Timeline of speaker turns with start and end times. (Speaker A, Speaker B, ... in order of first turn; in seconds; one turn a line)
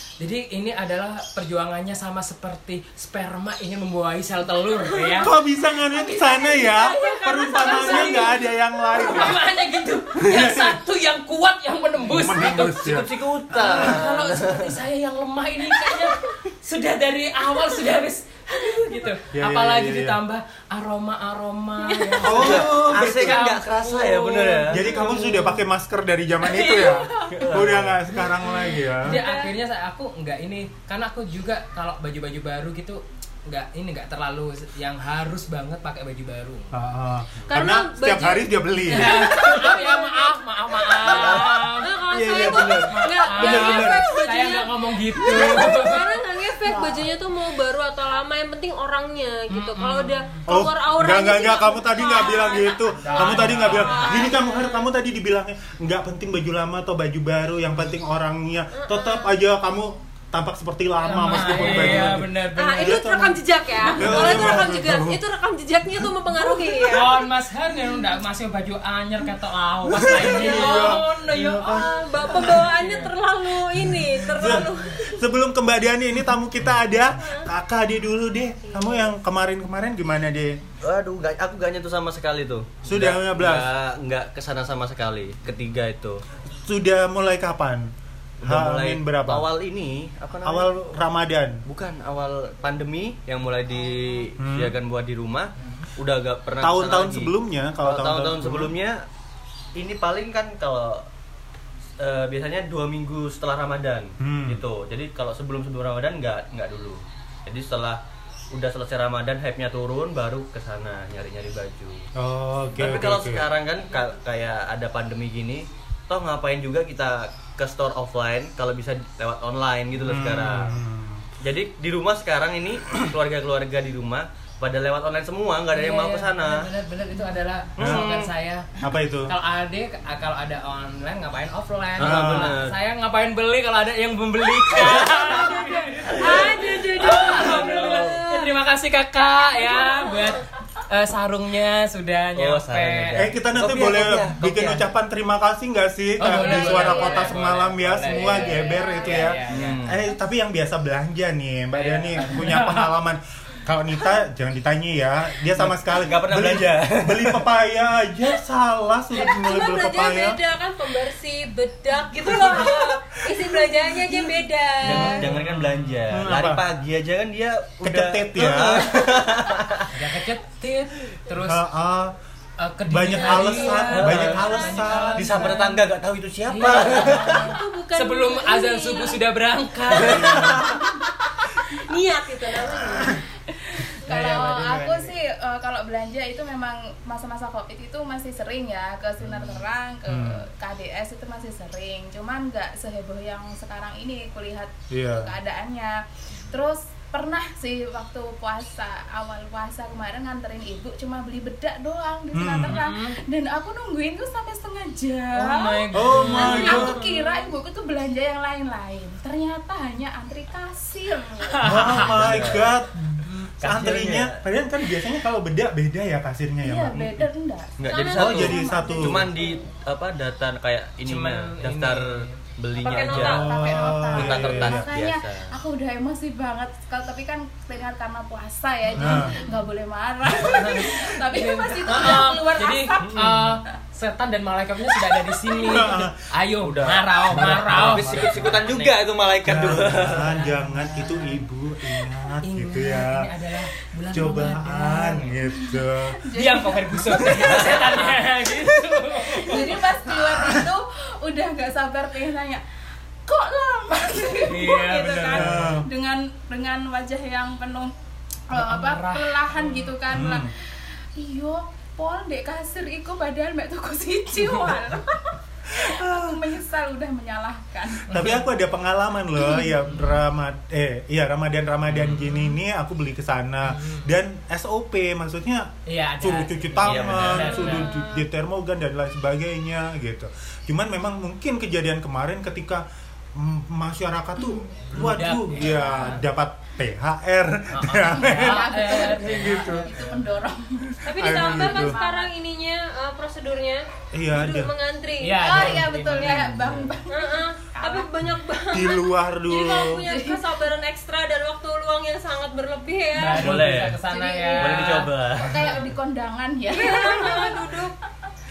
Speaker A: 0.2-12.9
Speaker B: 4.8-5.2
Speaker C: 5.2-9.4
Speaker B: 6.1-8.5
Speaker C: 10.1-10.8
Speaker C: 12.0-14.0
Speaker D: 12.6-14.7
Speaker A: 13.6-25.6
Speaker B: 15.9-16.4
Speaker C: 19.3-20.2
Speaker B: 21.8-22.6
Speaker C: 22.2-23.4
Speaker D: 22.3-24.8
Speaker C: 24.7-29.2
Speaker A: 26.4-27.5
Speaker D: 27.4-28.0
Speaker A: 28.1-36.7
Speaker B: 28.9-29.6
Speaker C: 36.7-39.4
Speaker B: 37.5-40.4
Speaker A: 38.9-46.0
Speaker B: 41.0-54.9
Speaker D: 41.1-43.9
Speaker C: 43.4-44.0
Speaker E: 46.6-47.1
Speaker A: 49.5-50.4
Speaker C: 50.5-63.4
Speaker A: 52.9-54.3
Speaker B: 58.7-59.4
Speaker A: 61.0-63.1
Speaker B: 61.5-61.9
Speaker B: 62.6-67.2
Speaker A: 63.8-64.7
Speaker C: 63.9-65.2
Speaker A: 66.8-73.1
Speaker C: 70.0-71.9
Speaker B: 70.0-71.0
Speaker B: 71.6-75.2
Speaker A: 73.8-74.7
Speaker C: 74.3-80.6
Speaker B: 77.2-77.5
Speaker B: 78.7-79.1
Speaker D: 80.8-86.2
Speaker C: 82.8-83.7
Speaker C: 86.6-87.9
Speaker C: 88.4-89.5
Speaker D: 88.4-90.7
Speaker C: 90.4-91.6
Speaker D: 91.7-97.3
Speaker C: 94.4-94.8
Speaker A: 95.6-95.8
Speaker C: 96.6-98.7
Speaker D: 97.8-99.0
Speaker D: 99.7-101.0
Speaker D: 102.0-108.0
Speaker C: 104.2-104.6
Speaker D: 108.5-112.0
Speaker C: 112.1-113.5
Speaker D: 112.8-120.8
Speaker C: 120.0-121.2
Speaker D: 121.4-126.7
Speaker A: 125.7-128.7
Speaker C: 127.8-128.0
Speaker D: 127.8-128.3
Speaker C: 128.8-129.3
Speaker A: 129.3-143.3
Speaker D: 132.0-132.7
Speaker C: 132.0-132.5
Speaker D: 134.8-135.5
Speaker B: 135.4-138.5
Speaker D: 136.2-138.2
Speaker B: 139.6-140.4
Speaker D: 142.3-144.9
Speaker C: 143.2-160.4
Speaker A: 146.2-149.8
Speaker B: 146.3-147.4
Speaker B: 148.0-149.3
Speaker D: 149.5-150.0
Speaker A: 151.7-152.9
Speaker D: 155.6-157.5
Speaker B: 159.1-165.3
Speaker C: 162.2-164.2
Speaker D: 164.8-169.9
Speaker C: 164.9-166.7
Speaker A: 165.4-165.7
Speaker C: 167.8-169.2
Speaker A: 169.9-171.6
Speaker C: 171.3-172.1
Speaker A: 172.6-175.8
Speaker C: 172.9-175.2
Speaker B: 173.1-175.1
Speaker D: 173.9-174.4
Speaker D: 175.2-177.4
Speaker A: 176.5-180.7
Speaker B: 177.0-179.2
Speaker B: 179.9-180.6
Speaker D: 179.9-180.8
Speaker E: 180.6-181.0
Speaker B: 181.4-183.2
Speaker E: 183.7-212.0
Speaker A: 183.9-185.1
Speaker C: 190.1-190.4
Speaker C: 194.9-195.3
Speaker C: 202.3-202.8
Speaker A: 202.6-203.2
Speaker A: 205.3-206.9
Speaker C: 205.9-207.0
Speaker B: 206.4-207.5
Speaker A: 211.4-212.5
Speaker C: 211.6-217.3
Speaker D: 212.0-212.7
Speaker A: 213.2-214.3
Speaker D: 213.6-214.3
Speaker E: 216.6-219.6
Speaker D: 217.8-225.5
Speaker B: 217.9-219.1
Speaker C: 218.2-219.3
Speaker A: 221.0-222.4
Speaker B: 222.8-223.6
Speaker E: 222.8-233.1
Speaker C: 223.2-224.9
Speaker C: 229.0-229.4
Speaker A: 229.0-229.3
Speaker A: 230.5-239.0
Speaker D: 233.0-233.3
Speaker E: 235.1-235.9
Speaker C: 235.7-236.1
Speaker D: 236.6-240.3
Speaker C: 237.3-238.6
Speaker C: 239.4-243.3
Speaker A: 239.5-241.4
Speaker A: 242.4-245.4
Speaker C: 244.1-246.2
Speaker E: 245.4-252.6
Speaker A: 246.3-250.1
Speaker C: 250.3-250.6
Speaker E: 253.2-257.9
Speaker A: 254.4-255.8
Speaker C: 255.1-255.8
Speaker E: 258.5-268.4
Speaker A: 258.5-259.9
Speaker C: 260.1-260.5
Speaker C: 265.7-266.4
Speaker C: 268.1-289.9
Speaker A: 268.1-268.4
Speaker E: 269.4-269.7
Speaker A: 269.7-270.1
Speaker A: 272.0-272.5
Speaker A: 273.6-274.1
Speaker A: 275.9-278.0
Speaker D: 276.8-277.7
Speaker B: 277.4-278.2
Speaker A: 284.9-286.2
Speaker E: 285.5-286.1
Speaker A: 287.7-290.0
Speaker E: 288.1-292.3
Speaker B: 291.0-295.8
Speaker C: 291.1-292.0
Speaker C: 294.1-294.7
Speaker A: 295.2-296.9
Speaker E: 295.4-298.1
Speaker D: 296.1-296.7
Speaker B: 297.1-305.0
Speaker C: 298.7-300.1
Speaker E: 300.1-300.5
Speaker A: 303.2-305.1
Speaker D: 303.4-304.0
Speaker D: 304.6-305.8
Speaker E: 305.4-307.9
Speaker B: 306.7-307.9